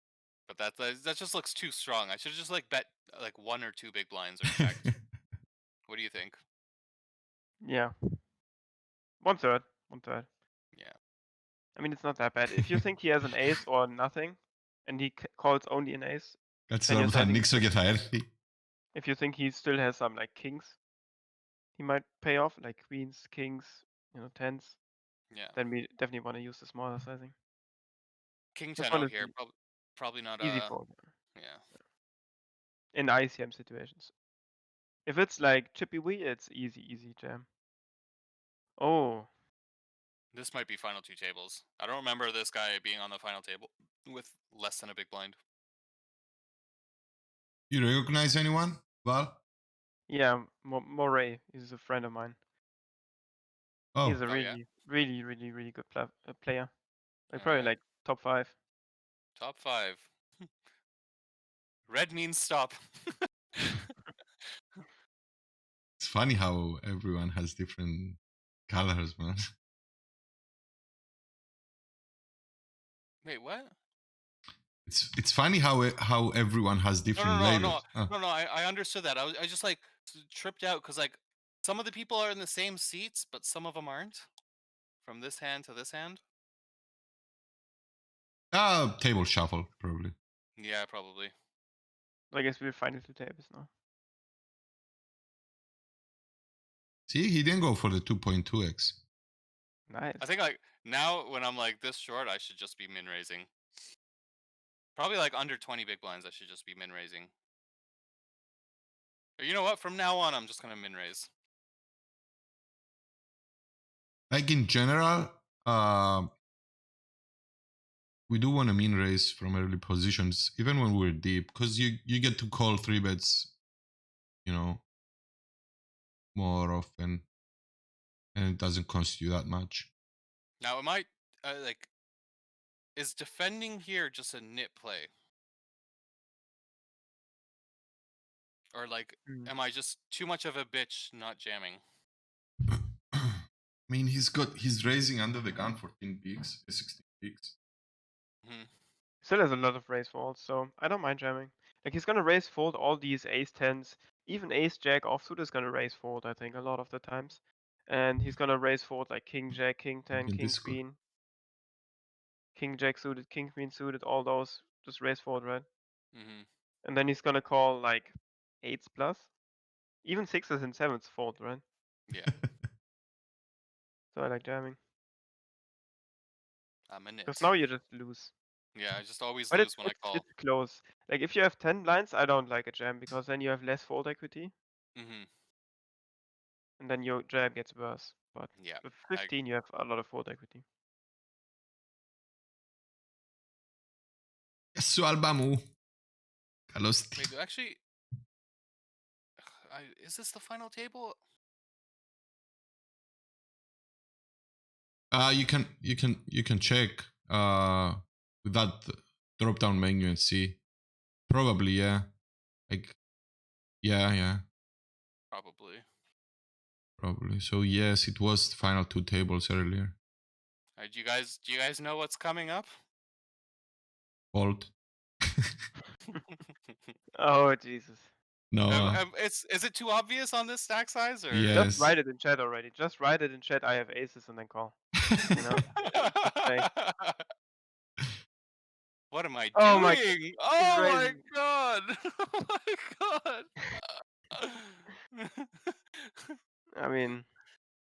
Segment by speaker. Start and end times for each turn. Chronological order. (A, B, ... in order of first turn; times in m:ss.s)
0:00.5-0:04.9 A
0:05.9-0:06.4 A
0:07.6-0:07.9 B
0:09.2-0:10.3 B
0:11.8-0:17.7 B
0:16.7-0:18.3 C
0:18.9-0:20.8 B
0:21.8-0:24.8 B
0:25.3-0:25.6 A
0:25.5-0:27.3 B
0:28.5-0:30.8 A
0:28.8-0:29.3 B
0:30.4-0:31.1 B
0:31.3-0:31.6 A
0:32.9-0:34.1 B
0:35.0-0:37.4 B
0:38.8-0:39.3 B
0:40.3-0:45.4 A
0:47.7-0:49.4 C
0:50.1-0:52.4 B
0:53.9-0:54.2 C
0:54.0-0:56.7 B
0:54.2-0:54.6 A
0:57.3-0:58.5 B
0:57.3-0:57.7 A
0:59.4-1:00.1 A
1:01.9-1:03.9 A
1:06.0-1:09.4 C
1:13.2-1:13.7 A
1:14.8-1:18.1 C
1:17.1-1:24.2 A
1:25.0-1:26.2 A
1:28.5-1:30.1 C
1:30.6-1:31.3 A
1:32.3-1:33.7 B
1:37.1-1:39.0 C
1:39.9-1:40.3 B
1:40.2-1:43.5 A
1:45.0-1:47.3 A
1:49.4-1:51.3 A
1:54.3-1:56.3 C
1:58.3-2:03.5 C
2:04.4-2:04.8 C
2:06.3-2:07.3 C
2:08.3-2:09.9 C
2:10.6-2:11.9 A
2:13.0-2:15.1 A
2:18.7-2:21.8 A
2:22.7-2:23.4 C
2:23.9-2:27.5 C
2:28.4-2:28.7 A
2:29.2-2:41.0 B
2:40.1-2:40.8 C
2:42.5-2:45.7 B
2:46.1-2:46.5 A
2:46.8-2:49.3 B
2:50.0-2:51.6 B
2:52.1-2:52.4 A
2:52.3-2:52.7 C
2:54.1-2:54.8 B
2:56.9-2:57.5 A
2:57.2-2:58.3 B
2:58.7-3:00.3 A
2:59.5-3:04.5 B
3:05.0-3:05.3 A
3:06.8-3:10.6 B
3:08.6-3:09.3 A
3:14.7-3:15.6 C
3:16.7-3:17.3 C
3:17.2-3:17.8 A
3:19.4-3:21.2 A
3:25.1-3:30.6 C
3:31.3-3:32.1 C
3:32.7-3:33.0 C
3:33.8-3:34.4 C
3:35.3-3:35.8 A
3:37.0-3:40.0 C
3:40.8-3:42.7 A
3:44.3-3:44.7 C
3:46.1-3:46.8 A
3:47.2-3:48.1 B
3:48.5-3:49.0 C
3:48.7-3:51.7 A
3:51.3-3:52.0 C
3:51.5-3:56.7 B
3:55.1-3:55.5 C
3:55.8-3:57.2 A
3:59.1-4:06.4 A
3:59.5-4:01.2 B
4:06.7-4:07.3 B